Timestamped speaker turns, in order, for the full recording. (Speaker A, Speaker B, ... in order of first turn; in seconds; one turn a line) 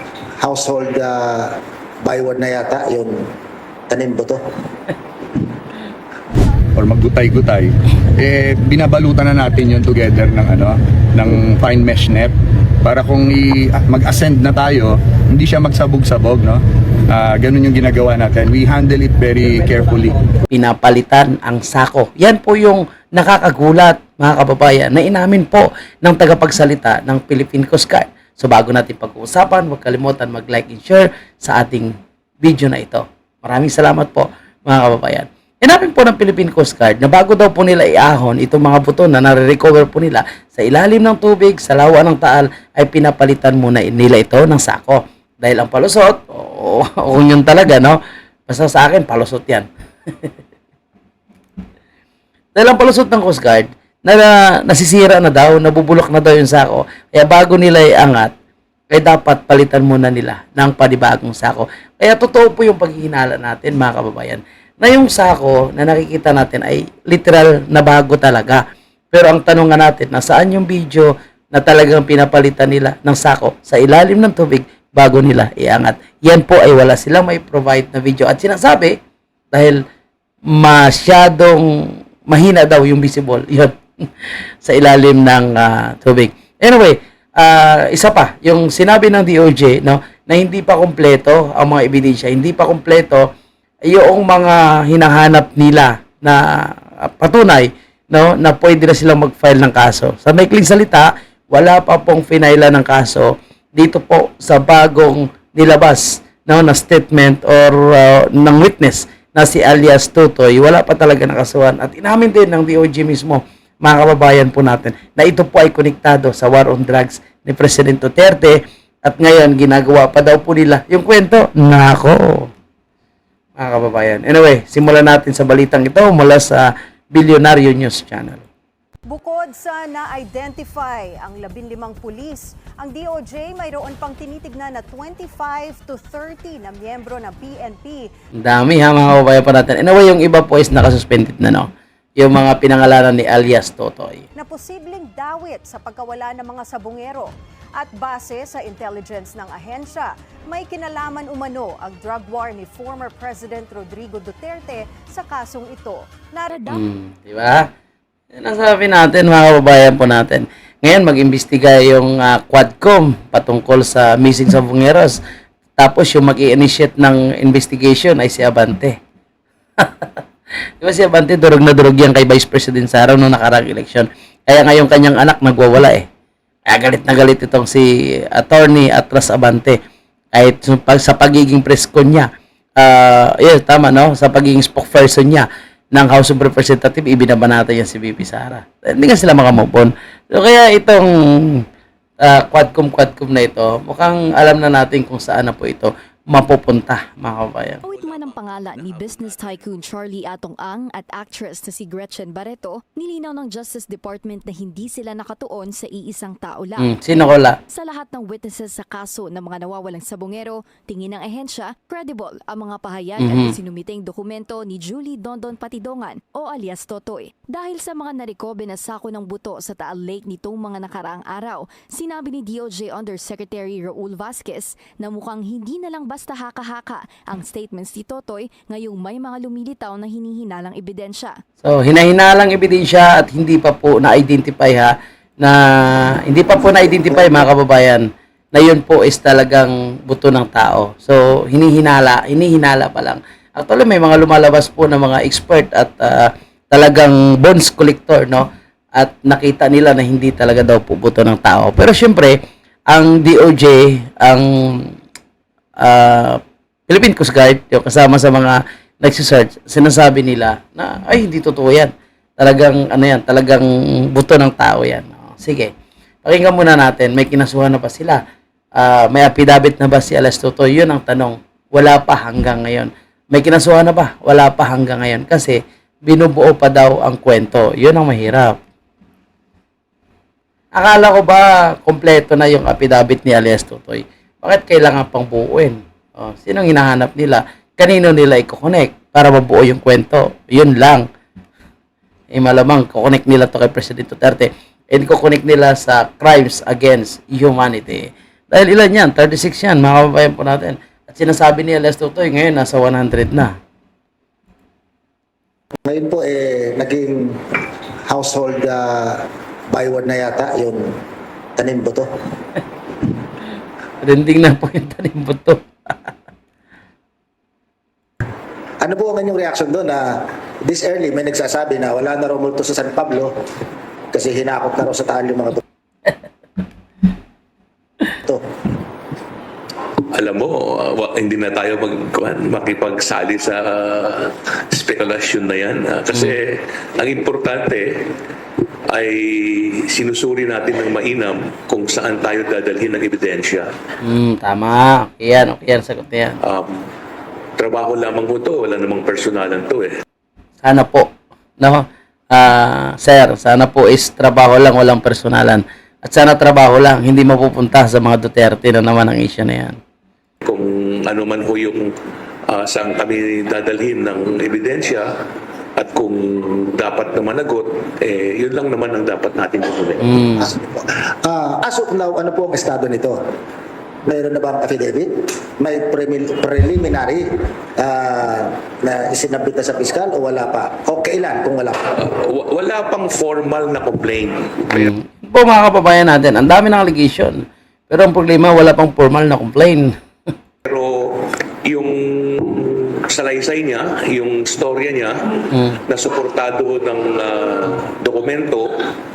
Speaker A: 0.4-3.2
Speaker A: 3.9-4.4
Speaker B: 6.8-12.3
Speaker B: 12.8-20.2
Speaker C: 20.5-49.6
Speaker C: 52.5-58.3
Speaker C: 58.9-79.0
Speaker C: 79.5-79.8
Speaker C: 80.5-83.8
Speaker C: 84.6-93.2
Speaker C: 93.9-122.5
Speaker C: 123.6-128.4
Speaker D: 129.1-138.1
Speaker C: 138.4-144.3
Speaker D: 144.3-156.8
Speaker C: 156.7-157.6
Speaker C: 158.3-165.2
Speaker C: 165.8-168.9
Speaker C: 169.8-170.1
Speaker C: 170.8-176.1
Speaker C: 176.7-179.8
Speaker C: 180.3-182.3
Speaker C: 182.8-191.6
Speaker C: 192.2-197.8
Speaker E: 197.8-206.9
Speaker F: 197.9-199.7
Speaker C: 206.8-207.6
Speaker E: 207.7-231.4
Speaker C: 213.2-213.5
Speaker C: 231.6-252.4
Speaker C: 252.9-254.9
Speaker C: 255.8-265.7
Speaker C: 266.2-268.2
Speaker C: 268.8-278.6
Speaker C: 280.7-291.0
Speaker C: 292.3-303.5
Speaker A: 305.9-307.4
Speaker A: 308.1-310.9
Speaker A: 311.6-312.1
Speaker C: 314.0-315.6
Speaker A: 318.8-323.3
Speaker A: 324.1-325.6
Speaker F: 330.1-338.1
Speaker F: 338.9-343.7
Speaker C: 344.0-346.4
Speaker F: 346.4-346.9
Speaker F: 347.6-349.9
Speaker C: 350.6-351.1
Speaker C: 351.6-359.8
Speaker F: 360.4-361.9
Speaker F: 362.5-365.1
Speaker F: 365.8-370.2
Speaker C: 370.0-370.5
Speaker A: 370.6-373.2
Speaker A: 374.1-377.2
Speaker A: 377.8-381.7
Speaker F: 381.9-384.9
Speaker C: 384.7-389.9
Speaker F: 390.6-391.1
Speaker F: 391.6-395.1
Speaker C: 395.5-395.8
Speaker F: 395.9-398.7